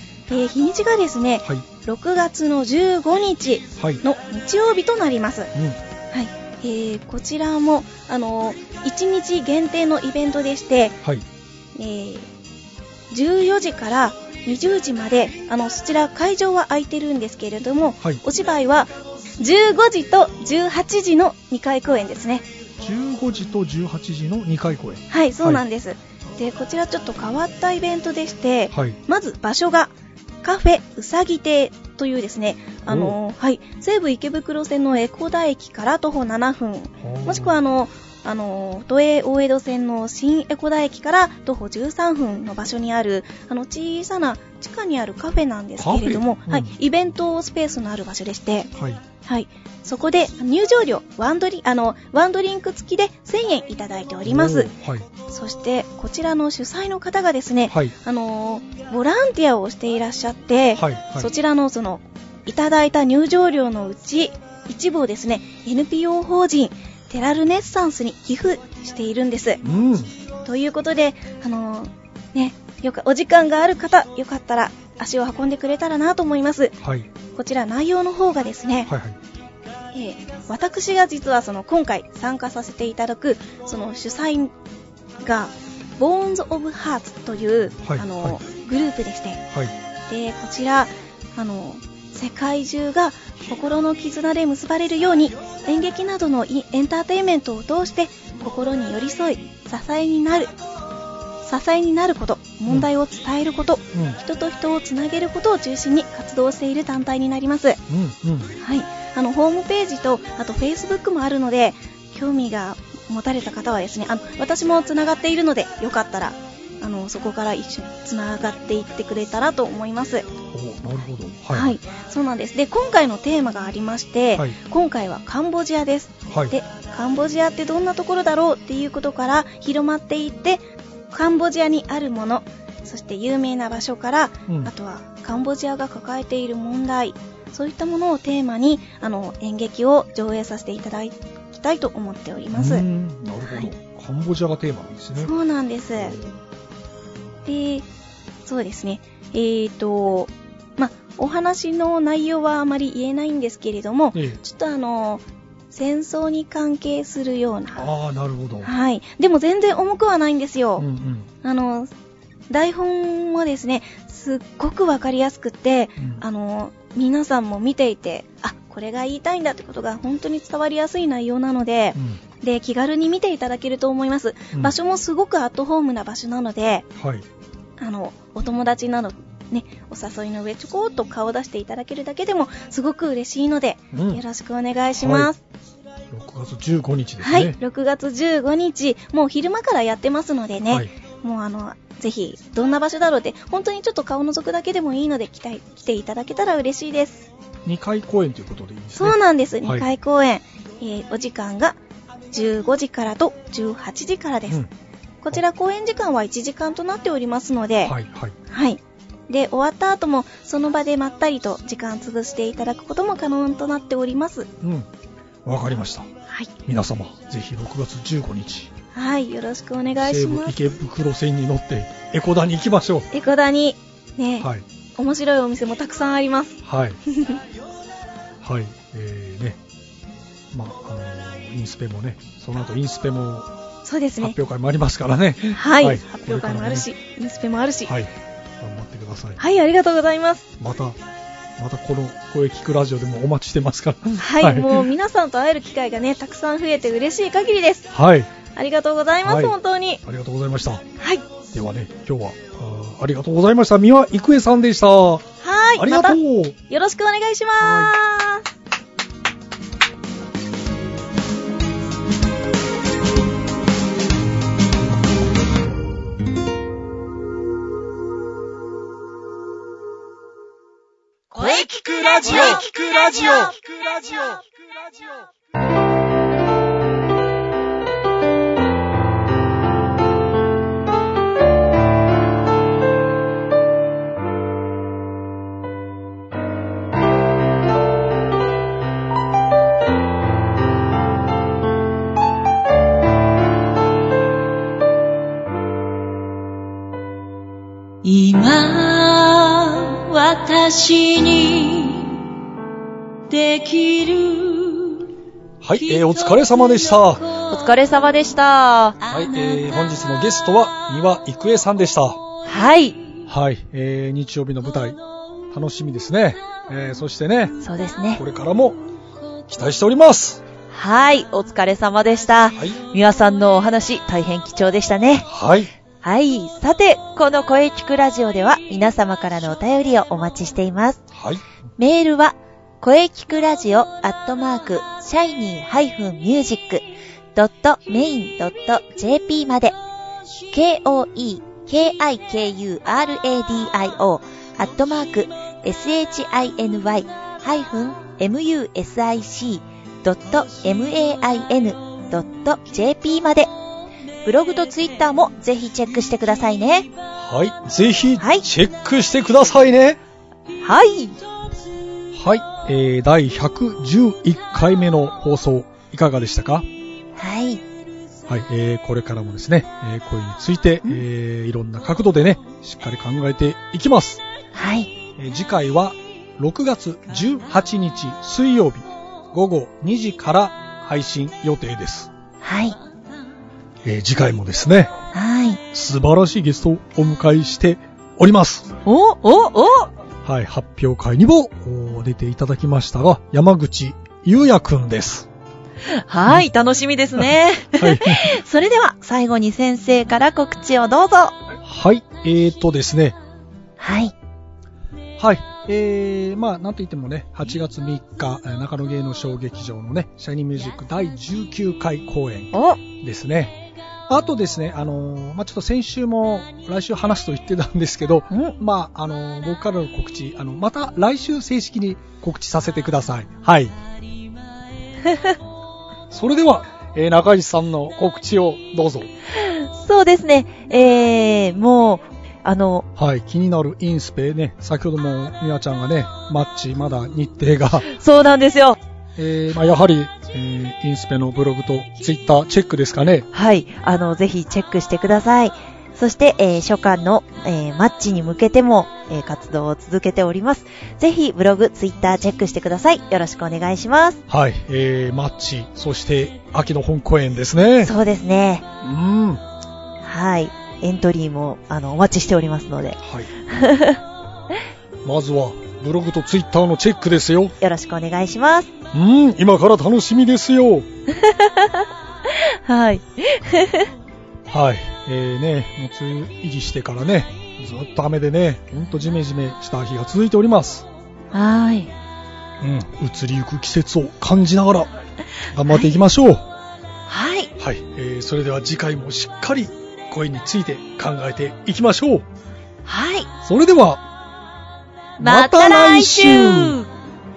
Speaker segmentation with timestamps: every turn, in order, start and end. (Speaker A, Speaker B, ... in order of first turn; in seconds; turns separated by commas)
Speaker A: 0.3-5.5, Speaker A: 6.1-11.0, Speaker A: 11.8-12.3, Speaker A: 13.1-22.5, Speaker B: 22.8-25.6, Speaker A: 25.1-48.7, Speaker B: 28.7-29.0, Speaker B: 32.9-33.2, Speaker B: 37.0-37.6, Speaker B: 45.8-46.7, Speaker B: 48.8-49.0, Speaker A: 49.2-54.7, Speaker B: 54.2-55.1, Speaker A: 55.3-69.6, Speaker B: 57.7-57.9, Speaker B: 60.8-61.3, Speaker B: 69.6-70.1, Speaker A: 70.4-76.8, Speaker B: 76.8-77.1, Speaker A: 77.3-78.9, Speaker B: 78.9-79.2, Speaker A: 79.9-84.5, Speaker A: 85.2-89.4, Speaker B: 87.8-88.4, Speaker A: 90.1-100.5, Speaker A: 101.4-107.8, Speaker B: 103.9-104.2, Speaker B: 107.9-108.5, Speaker A: 108.6-120.3, Speaker B: 120.5-121.8, Speaker A: 121.5-142.9, Speaker B: 142.5-145.3, Speaker A: 145.2-146.2, Speaker B: 146.0-146.3, Speaker A: 147.4-147.9, Speaker A: 148.4-157.9, Speaker B: 154.1-154.4, Speaker B: 157.8-158.7, Speaker A: 158.6-160.9, Speaker B: 160.8-161.3, Speaker A: 161.4-161.9, Speaker A: 162.5-176.9, Speaker B: 166.0-166.2, Speaker B: 171.9-172.2, Speaker B: 177.0-177.2, Speaker A: 177.8-185.4, Speaker B: 183.9-184.2, Speaker B: 185.0-185.3, Speaker B: 186.1-187.6, Speaker A: 187.2-197.3, Speaker B: 197.7-199.9, Speaker A: 199.0-201.8, Speaker A: 202.3-204.6, Speaker A: 205.2-207.9, Speaker B: 207.8-208.4, Speaker A: 208.5-214.5, Speaker B: 214.6-214.9, Speaker B: 215.4-216.1, Speaker B: 216.7-218.7, Speaker A: 218.9-220.6, Speaker B: 220.0-223.1, Speaker A: 223.1-227.4, Speaker B: 226.6-227.0, Speaker B: 228.4-229.6, Speaker B: 230.5-233.5, Speaker A: 233.8-234.3, Speaker B: 234.2-236.9, Speaker A: 235.6-237.9, Speaker B: 238.6-239.4, Speaker A: 239.4-240.4, Speaker B: 240.6-241.0, Speaker B: 241.6-244.9, Speaker A: 244.2-247.9, Speaker B: 247.9-248.3, Speaker A: 248.5-250.0, Speaker B: 249.2-250.8, Speaker A: 251.0-251.3, Speaker B: 251.5-255.3, Speaker A: 255.4-258.4, Speaker B: 255.8-256.6, Speaker B: 257.6-257.9, Speaker C: 271.4-274.1, Speaker B: 271.7-273.5, Speaker D: 298.0-302.2, Speaker D: 303.3-305.1, Speaker B: 305.6-307.2, Speaker D: 305.7-307.9, Speaker C: 307.5-309.0, Speaker B: 309.1-312.2, Speaker C: 312.4-313.1, Speaker B: 313.3-315.0, Speaker B: 315.5-317.6, Speaker C: 317.6-318.2, Speaker B: 318.2-318.8, Speaker B: 319.5-320.4, Speaker C: 320.7-325.3, Speaker B: 325.3-325.7, Speaker C: 326.0-331.0, Speaker B: 331.1-331.4, Speaker C: 331.8-339.8, Speaker C: 340.5-353.5, Speaker C: 354.2-356.9, Speaker B: 357.2-360.0, Speaker C: 358.2-358.5, Speaker C: 360.6-361.2, Speaker B: 362.1-366.7, Speaker C: 367.2-367.6, Speaker B: 368.3-374.2, Speaker C: 374.5-374.9, Speaker B: 375.2-382.1, Speaker C: 382.4-382.8, Speaker B: 383.8-384.9, Speaker C: 385.1-385.6, Speaker B: 385.7-388.7, Speaker C: 388.9-389.9, Speaker B: 390.2-395.3, Speaker C: 395.9-401.4, Speaker B: 397.8-398.2, Speaker B: 401.6-403.2, Speaker C: 403.8-404.1, Speaker B: 405.2-423.7, Speaker C: 412.5-412.8, Speaker C: 418.3-418.6, Speaker B: 426.1-429.1, Speaker C: 429.3-432.9, Speaker B: 433.0-437.9, Speaker C: 437.9-438.8, Speaker B: 439.2-443.3, Speaker C: 443.3-454.2, Speaker B: 454.3-457.9, Speaker C: 457.8-458.6, Speaker B: 458.8-459.4, Speaker C: 460.0-464.0, Speaker B: 463.0-463.3, Speaker B: 465.1-467.5, Speaker C: 467.6-468.7, Speaker B: 468.9-470.9, Speaker C: 471.1-473.9, Speaker B: 474.5-480.9, Speaker C: 481.3-481.9, Speaker B: 482.6-484.9, Speaker B: 485.5-486.5, Speaker C: 485.6-485.9, Speaker C: 487.1-487.5, Speaker B: 487.6-492.3, Speaker C: 492.9-493.3, Speaker B: 493.4-494.0, Speaker B: 495.2-496.8, Speaker C: 495.2-496.9